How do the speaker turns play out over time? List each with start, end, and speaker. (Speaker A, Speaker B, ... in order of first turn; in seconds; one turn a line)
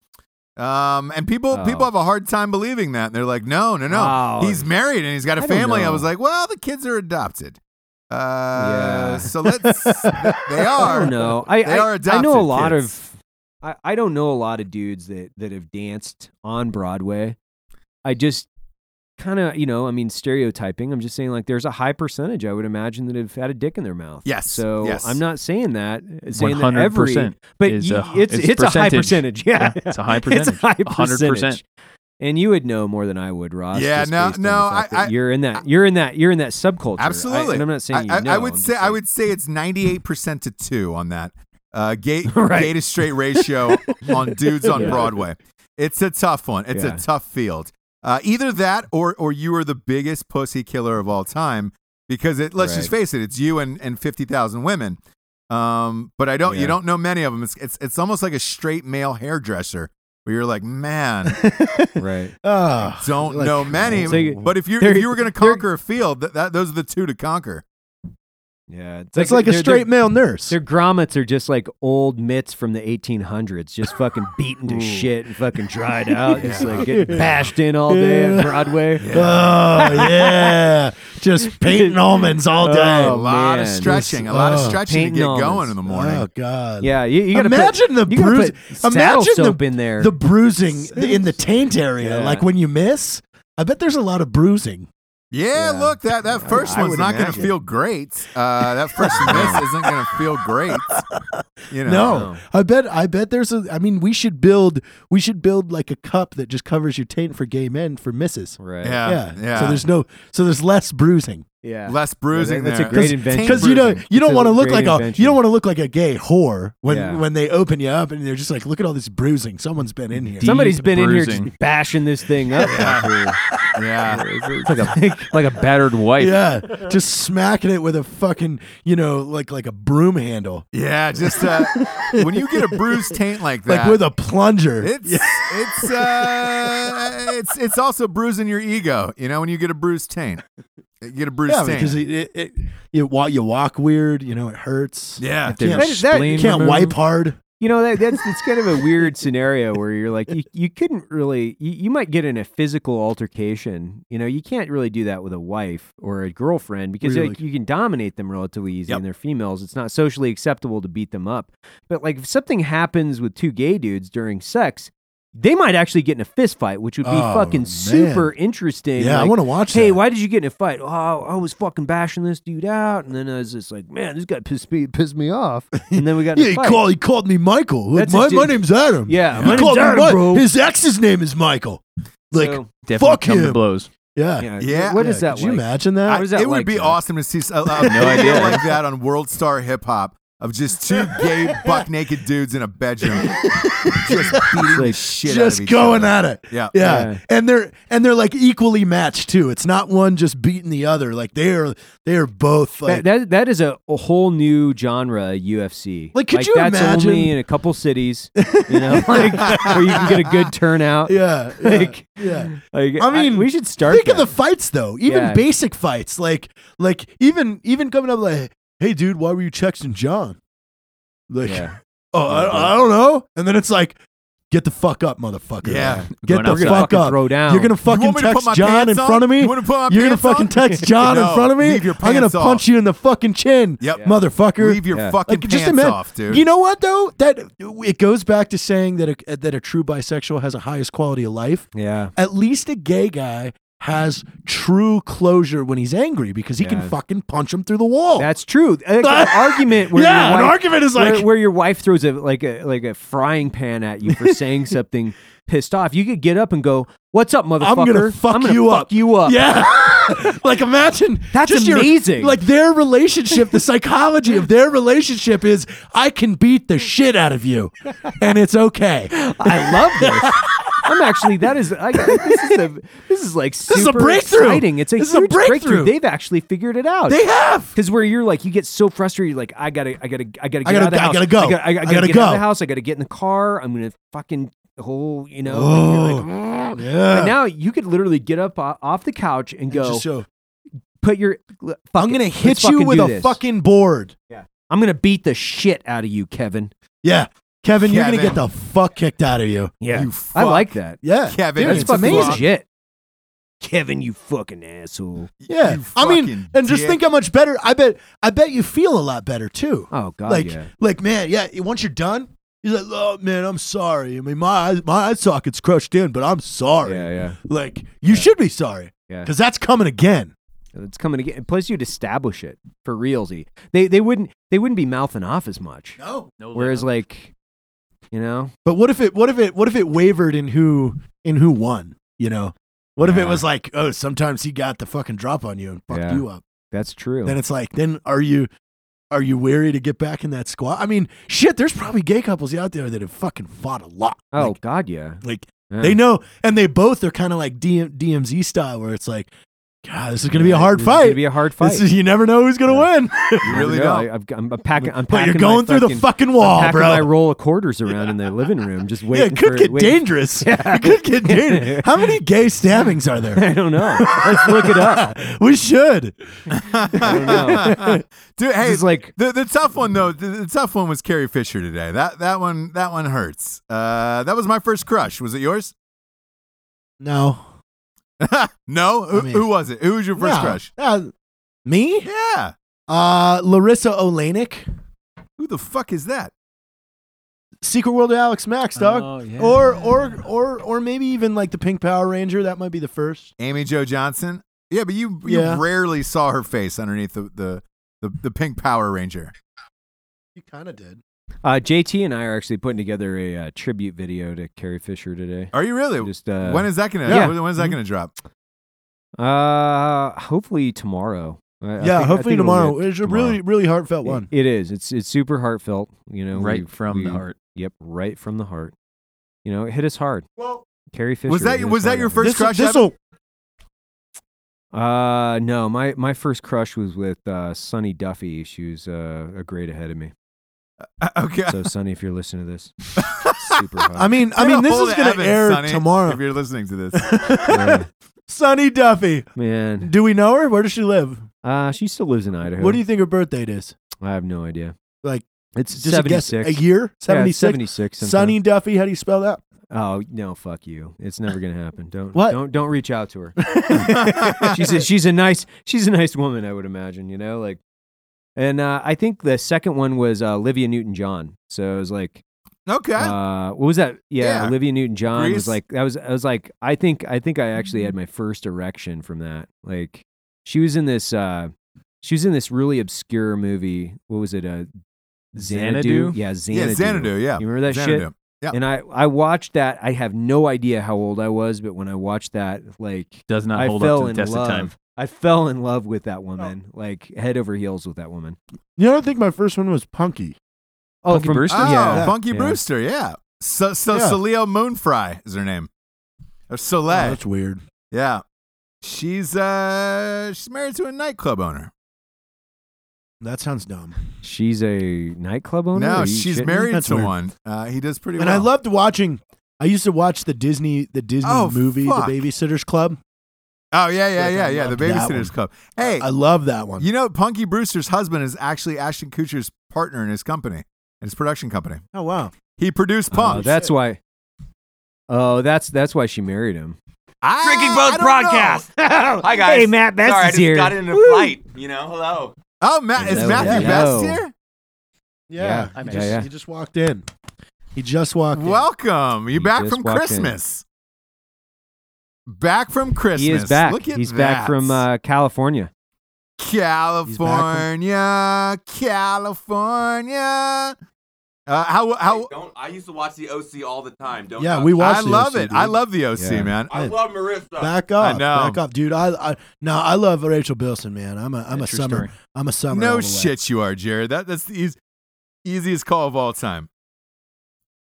Speaker A: 0.6-7.6
Speaker B: 1.5-1.9
Speaker B: 3.9-4.7
Speaker B: 5.4-6.1
Speaker A: 8.1-12.9
Speaker B: 8.6-9.3
Speaker C: 9.6-11.1
Speaker B: 10.8-17.4
Speaker B: 18.1-18.5
Speaker B: 19.2-31.6
Speaker A: 24.2-25.2
Speaker D: 26.4-31.6
Speaker B: 32.2-39.0
Speaker A: 33.7-35.1
Speaker A: 37.0-55.0
Speaker B: 42.3-42.7
Speaker B: 43.4-44.1
Speaker B: 44.7-45.1
Speaker C: 44.7-45.1
Speaker B: 46.7-47.0
Speaker B: 52.6-52.9
Speaker A: 55.5-61.4
Speaker B: 56.5-56.8
Speaker C: 61.3-64.4
Speaker B: 62.0-62.3
Speaker A: 63.0-67.6
Speaker B: 64.0-65.6
Speaker B: 68.7-69.9
Speaker C: 69.2-70.6
Speaker B: 70.5-80.7
Speaker C: 74.7-75.0
Speaker C: 76.2-83.2
Speaker A: 76.4-76.8
Speaker A: 79.0-79.6
Speaker B: 81.4-84.0
Speaker A: 82.8-86.3
Speaker C: 83.8-84.8
Speaker B: 84.6-85.8
Speaker C: 85.9-94.9
Speaker B: 86.8-90.1
Speaker B: 90.9-91.2
Speaker B: 92.0-92.5
Speaker A: 95.3-101.0
Speaker B: 95.5-97.5
Speaker C: 96.6-97.2
Speaker C: 99.0-111.5
Speaker B: 99.1-99.6
Speaker A: 101.7-102.2
Speaker B: 102.0-102.4
Speaker B: 108.6-109.0
Speaker A: 108.8-109.8
Speaker B: 111.6-115.4
Speaker A: 111.9-114.0
Speaker C: 112.9-120.5
Speaker B: 116.9-117.2
Speaker D: 120.4-121.5
Speaker B: 120.4-123.4
Speaker C: 122.6-122.9
Speaker A: 122.6-123.1
Speaker C: 123.5-123.8
Speaker A: 123.7-124.3
Speaker D: 124.1-126.4
Speaker B: 124.6-125.4
Speaker C: 126.2-130.7
Speaker A: 130.7-134.0
Speaker C: 131.2-137.1
Speaker A: 134.8-140.4
Speaker A: 141.0-142.0
Speaker C: 141.5-147.4
Speaker A: 145.2-145.8
Speaker D: 145.4-146.9
Speaker B: 145.8-146.8
Speaker B: 147.6-176.8
Speaker C: 157.0-157.4
Speaker C: 167.0-168.3
Speaker C: 169.0-170.0
Speaker C: 175.9-183.6
Speaker B: 177.9-180.5
Speaker B: 182.3-182.7
Speaker D: 182.8-183.9
Speaker C: 184.2-186.3
Speaker B: 184.4-187.0
Speaker A: 184.6-185.0
Speaker A: 186.1-196.7
Speaker C: 187.8-188.6
Speaker D: 187.8-188.6
Speaker C: 190.9-191.8
Speaker C: 193.1-203.1
Speaker B: 194.5-195.0
Speaker B: 196.8-197.2
Speaker B: 202.8-214.3
Speaker C: 206.1-207.4
Speaker C: 208.4-210.1
Speaker C: 211.1-220.4
Speaker B: 215.1-215.4
Speaker C: 221.3-224.0
Speaker B: 221.4-221.8
Speaker B: 222.3-222.7
Speaker C: 224.5-248.3
Speaker A: 225.6-226.1
Speaker B: 225.7-227.8
Speaker D: 226.2-226.9
Speaker A: 227.8-232.7
Speaker A: 234.6-236.4
Speaker B: 234.9-235.2
Speaker B: 241.7-242.1
Speaker B: 246.6-246.9
Speaker B: 248.2-259.4
Speaker C: 249.0-251.3
Speaker C: 254.1-254.4
Speaker C: 257.6-271.3
Speaker B: 261.3-262.4
Speaker B: 269.2-277.2
Speaker C: 272.0-272.6
Speaker C: 273.7-275.9
Speaker C: 277.1-277.7
Speaker B: 277.7-290.1
Speaker C: 280.6-282.5
Speaker C: 285.5-287.4
Speaker C: 289.7-290.3
Speaker B: 291.0-293.4
Speaker C: 291.9-294.1
Speaker B: 294.3-296.7
Speaker C: 297.0-299.7
Speaker A: 297.8-298.4
Speaker B: 299.8-301.0
Speaker A: 299.9-300.7
Speaker C: 301.0-302.4
Speaker A: 301.3-302.4
Speaker B: 301.6-302.7
Speaker B: 303.6-305.3
Speaker A: 305.4-307.0
Speaker C: 305.5-320.3
Speaker B: 309.9-310.7
Speaker B: 316.8-317.4
Speaker B: 320.7-326.0
Speaker C: 326.0-326.3
Speaker D: 326.4-326.9
Speaker B: 326.5-327.3
Speaker B: 328.1-328.5
Speaker C: 328.6-336.4
Speaker B: 333.0-333.4
Speaker B: 335.9-337.4
Speaker C: 337.2-338.5
Speaker C: 339.1-344.6
Speaker B: 344.3-346.0
Speaker C: 345.2-349.3
Speaker C: 349.8-353.6
Speaker B: 350.3-351.9
Speaker B: 353.4-362.2
Speaker A: 353.4-354.1
Speaker C: 354.8-357.1
Speaker C: 359.1-366.4
Speaker B: 363.3-365.1
Speaker A: 366.5-375.7
Speaker C: 366.9-368.0
Speaker B: 367.0-367.9
Speaker B: 368.6-369.1
Speaker C: 377.0-377.5
Speaker A: 378.2-380.7
Speaker C: 379.1-379.4
Speaker C: 380.2-381.1
Speaker C: 381.6-382.1
Speaker A: 382.0-382.5
Speaker C: 382.9-384.6
Speaker A: 385.4-386.3
Speaker C: 387.6-393.3
Speaker D: 388.8-390.1
Speaker A: 393.4-399.3
Speaker C: 395.2-395.6
Speaker C: 400.4-401.0
Speaker B: 401.4-407.4
Speaker A: 405.5-408.1
Speaker C: 407.1-407.4
Speaker B: 409.2-413.4
Speaker C: 411.8-414.3
Speaker B: 414.1-418.7
Speaker D: 416.3-417.4
Speaker B: 419.4-420.2
Speaker B: 420.9-422.3
Speaker A: 421.3-422.9
Speaker C: 422.2-423.0
Speaker B: 424.7-430.1
Speaker A: 431.0-431.6
Speaker B: 431.5-432.8
Speaker A: 433.0-433.6
Speaker B: 433.3-434.1
Speaker C: 433.9-436.2
Speaker A: 434.3-437.4
Speaker C: 436.9-439.3
Speaker B: 437.5-437.9
Speaker B: 439.4-439.9
Speaker C: 439.8-441.2
Speaker B: 441.4-442.8
Speaker C: 442.5-443.8
Speaker B: 444.0-444.8
Speaker C: 445.0-449.4
Speaker B: 445.6-448.4
Speaker B: 449.7-457.6
Speaker C: 452.1-452.4
Speaker C: 453.4-454.5
Speaker A: 454.0-454.5
Speaker B: 458.4-462.2
Speaker A: 462.7-463.2
Speaker B: 463.0-471.5
Speaker A: 464.2-464.6
Speaker A: 465.1-465.6
Speaker B: 472.0-474.7
Speaker B: 475.3-488.4
Speaker D: 475.4-476.2
Speaker A: 476.5-478.6
Speaker D: 483.3-484.7
Speaker C: 488.8-490.4
Speaker B: 491.0-492.6
Speaker D: 491.1-491.8
Speaker A: 491.5-495.7
Speaker C: 491.9-492.2
Speaker C: 493.9-494.2
Speaker A: 496.5-497.2
Speaker C: 496.9-497.6
Speaker A: 497.9-498.2
Speaker A: 498.8-501.7
Speaker C: 503.2-504.0
Speaker B: 504.2-506.6
Speaker A: 505.8-508.5
Speaker C: 506.5-507.1
Speaker C: 508.2-513.0
Speaker A: 511.2-512.2
Speaker A: 513.7-516.1
Speaker C: 514.2-516.9
Speaker A: 516.8-521.8
Speaker C: 521.9-522.3
Speaker A: 522.6-523.5
Speaker B: 523.1-524.0
Speaker C: 523.2-523.7
Speaker B: 525.1-526.8
Speaker A: 527.2-528.7
Speaker E: 527.4-528.7
Speaker B: 528.7-531.4
Speaker E: 529.2-532.4
Speaker A: 532.6-534.3
Speaker B: 533.0-534.2
Speaker C: 533.0-533.9
Speaker C: 535.3-537.1
Speaker B: 535.4-536.3
Speaker D: 535.8-536.2
Speaker C: 537.8-538.6
Speaker A: 538.3-540.6
Speaker B: 539.4-540.4
Speaker A: 542.3-544.8
Speaker B: 543.1-545.7
Speaker A: 546.4-550.8
Speaker C: 547.1-547.7
Speaker A: 551.5-552.3
Speaker E: 552.0-554.9
Speaker C: 554.4-555.8
Speaker A: 554.8-556.7
Speaker B: 556.2-556.6
Speaker E: 556.7-557.8
Speaker C: 557.6-563.4
Speaker A: 558.0-558.6
Speaker D: 561.5-562.1
Speaker A: 562.7-564.8
Speaker A: 565.5-566.7